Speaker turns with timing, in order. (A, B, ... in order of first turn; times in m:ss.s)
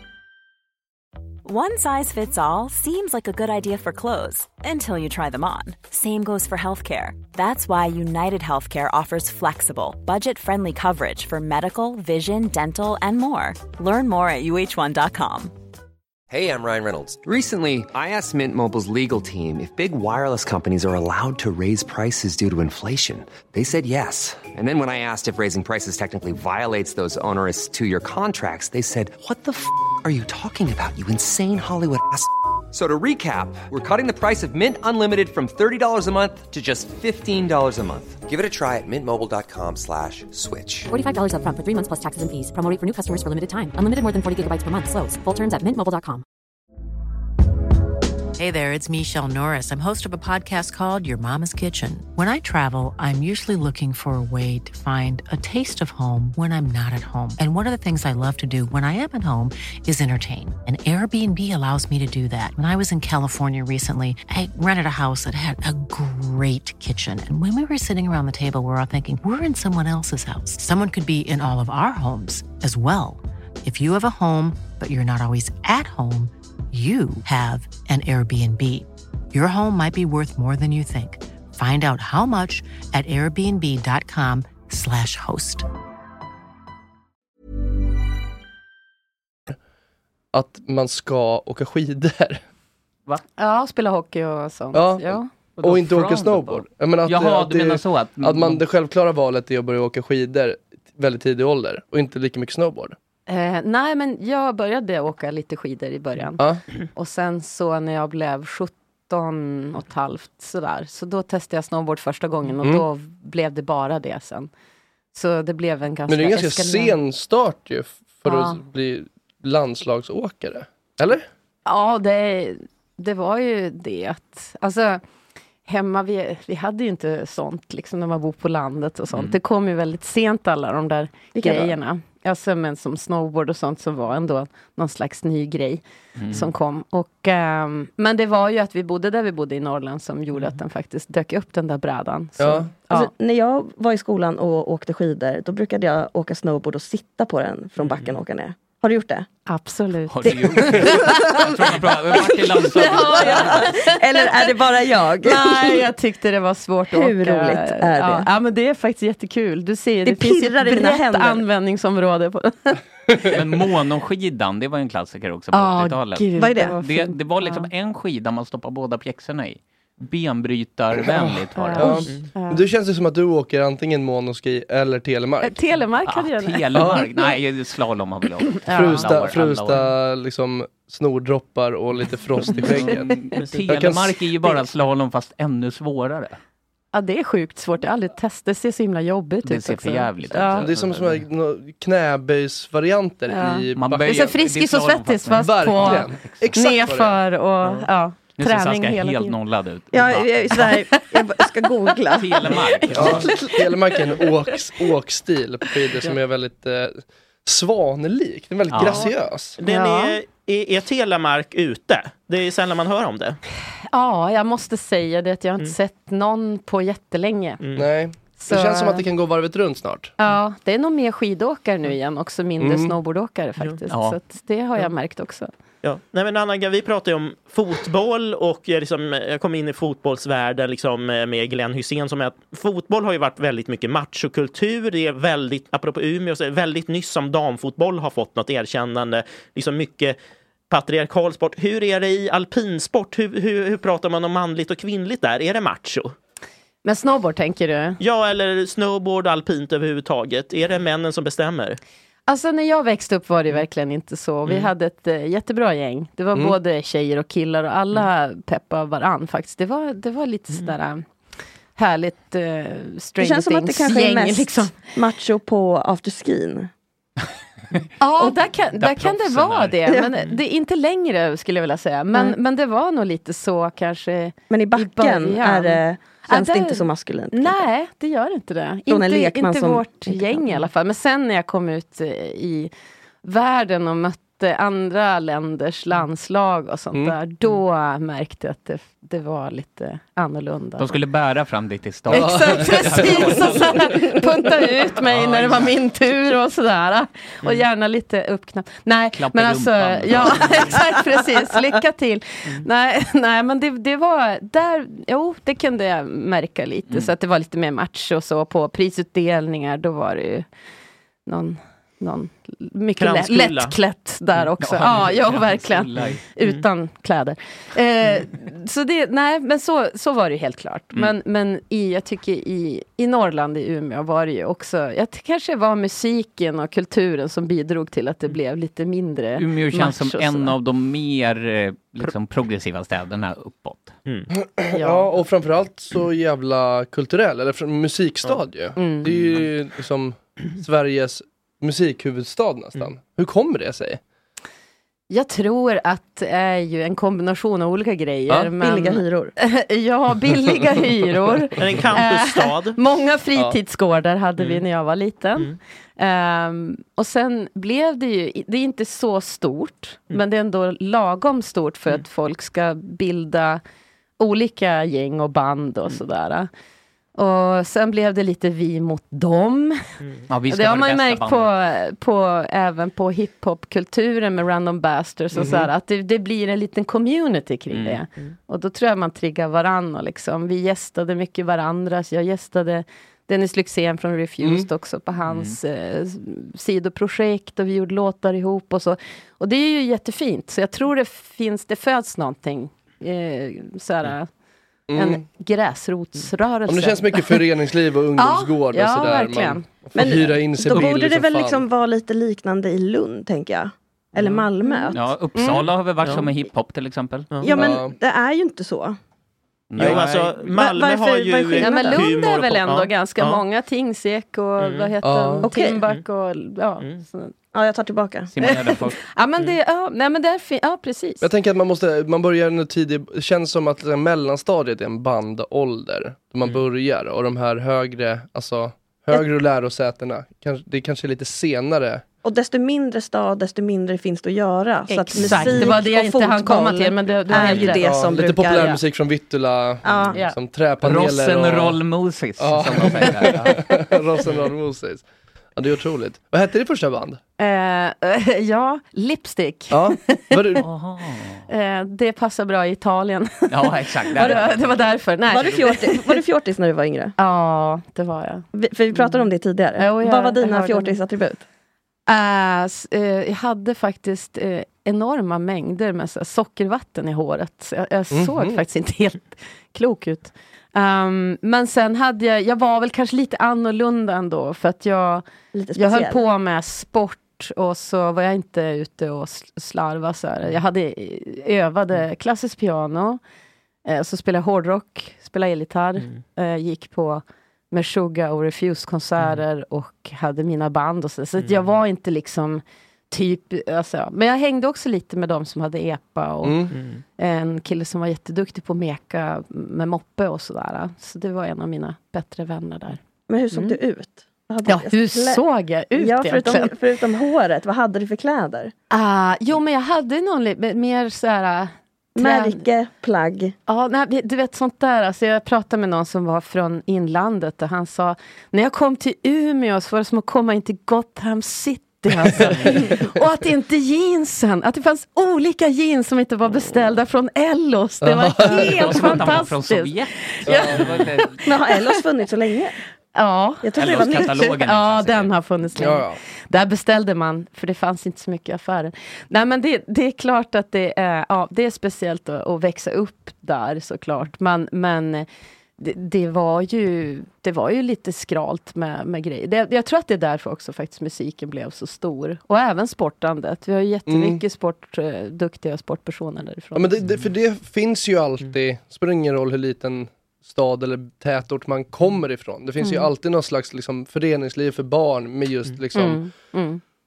0:01.4-0:15.5 A
0:16.3-0:40.9 B
0:40.9-0:46.2 C
0:48.4-1:25.6 D
1:30.3-1:32.4 E
1:33.4-1:35.3 F
1:34.7-1:43.0 E
1:35.6-1:38.6 G
1:43.3-1:46.4 F
1:46.9-1:54.5 F
1:52.6-1:52.9 E
1:55.1-1:57.0 F
1:56.1-2:01.2 E
1:58.2-1:58.6 F
2:01.6-2:05.0 F
2:05.6-2:23.1 F
2:09.1-2:09.4 G
2:11.3-2:11.7 H
2:16.2-2:16.5 G
2:22.4-2:22.7 E
2:22.9-2:29.3 H
2:29.5-2:31.6 F
2:30.1-2:33.6 G
2:32.2-2:34.6 F
2:32.8-2:35.9 H
2:35.2-2:42.8 F
2:36.9-2:38.3 H
2:40.0-2:41.4 H
2:43.2-2:52.0 G
2:45.5-2:47.7 F
2:46.4-2:46.8 H
2:51.5-2:52.6 F
2:51.8-2:55.6 E
2:55.4-2:57.0 F
2:56.0-2:59.9 G
2:56.7-2:57.1 E
2:58.6-2:59.3 F
2:58.7-3:04.2 E
3:02.5-3:06.4 G
3:06.9-3:10.7 F
3:09.4-3:11.2 G
3:10.6-3:14.3 E
3:13.3-3:19.4 F
3:13.7-3:16.5 G
3:15.3-3:17.2 E
3:18.4-3:20.8 G
3:19.9-3:23.6 H
3:20.5-3:22.0 F
3:22.1-3:23.3 G
3:22.9-3:29.6 E
3:28.7-3:29.1 G
3:29.6-3:33.4 I
3:29.6-3:30.2 F
3:33.9-3:37.6 F
3:37.6-3:37.8 I
3:37.8-3:40.1 E
3:38.4-3:39.0 F
3:40.2-3:45.5 F
3:42.6-3:43.0 E
3:43.9-3:44.2 G
3:45.8-4:00.2 I
4:00.7-4:06.1 I
4:06.8-4:08.0 F
4:08.0-4:11.8 I
4:12.3-4:21.0 F
4:21.8-4:24.8 F
4:23.2-4:26.7 H
4:28.0-4:42.7 F
4:28.8-4:29.8 G
4:34.5-4:37.7 H
4:38.9-4:40.7 H
4:43.2-4:50.9 F
4:50.8-4:53.8 G
4:52.1-4:54.0 E
4:52.1-5:10.4 F
4:55.0-4:55.8 G
4:59.1-5:00.8 G
5:11.2-5:30.5 F
5:13.0-5:13.8 I
5:14.6-5:16.2 G
5:29.4-5:33.9 G
5:34.5-5:44.0 E
5:34.7-5:35.1 F
5:38.8-5:39.1 F
5:45.1-6:03.6 F
5:48.6-5:49.3 H
5:51.6-5:52.8 I
5:54.4-5:54.6 I
6:04.2-6:06.5 F
6:07.1-6:10.0 F
6:10.3-6:11.5 G
6:10.5-6:34.3 F
6:15.3-6:15.7 E
6:17.7-6:18.0 G
6:24.4-6:24.7 E
6:25.3-6:25.6 G
6:34.9-6:35.2 E
6:34.9-6:37.4 F
6:36.7-6:41.6 E
6:38.2-6:39.6 F
6:39.9-6:45.0 H
6:44.6-6:45.7 F
6:44.9-6:47.3 G
6:47.4-6:49.0 H
6:47.5-6:47.9 E
6:49.7-6:50.5 G
6:49.8-6:53.4 I
6:50.5-6:52.0 H
6:51.6-6:57.3 F
6:54.6-6:54.9 I
6:55.0-6:55.5 E
6:55.4-6:55.8 H
6:57.5-6:58.3 H
6:58.3-6:59.0 G
6:58.4-7:01.2 F
7:01.2-7:12.0 E
7:12.2-7:18.8 H
7:14.9-7:18.0 F
7:17.7-7:21.8 E
7:19.8-7:20.2 H
7:20.8-7:23.6 G
7:22.4-7:25.0 E
7:25.6-7:27.2 E
7:27.4-7:30.6 F
7:29.7-7:30.7 E
7:30.6-7:31.4 G
7:31.5-7:36.2 F
7:33.5-7:34.8 G
7:34.2-7:34.5 H
7:35.3-7:37.1 H
7:37.2-7:39.2 F
7:38.5-7:41.4 H
7:39.8-7:41.0 F
7:42.1-8:03.2 F
7:48.1-7:48.6 E
7:55.5-7:56.2 H
8:03.8-8:23.0 F
8:11.4-8:11.6 I
8:16.4-8:16.7 E
8:16.7-8:17.0 I
8:23.3-8:25.4 H
8:23.5-8:23.8 F
8:24.6-8:26.8 F
8:26.0-8:28.7 H
8:28.9-8:32.6 F
8:32.2-8:33.5 H
8:33.7-8:52.0 F
8:42.4-8:42.7 E
8:48.0-8:49.2 E
8:48.4-8:51.5 G
8:50.4-8:50.8 E
8:51.4-8:52.8 H
8:53.1-9:05.2 F
8:53.6-8:54.5 H
8:53.7-8:55.3 G
8:55.8-8:56.2 E
9:05.8-9:16.9 F
9:14.1-9:14.4 E
9:16.7-9:26.2 E
9:22.8-9:23.1 F
9:25.9-9:26.8 F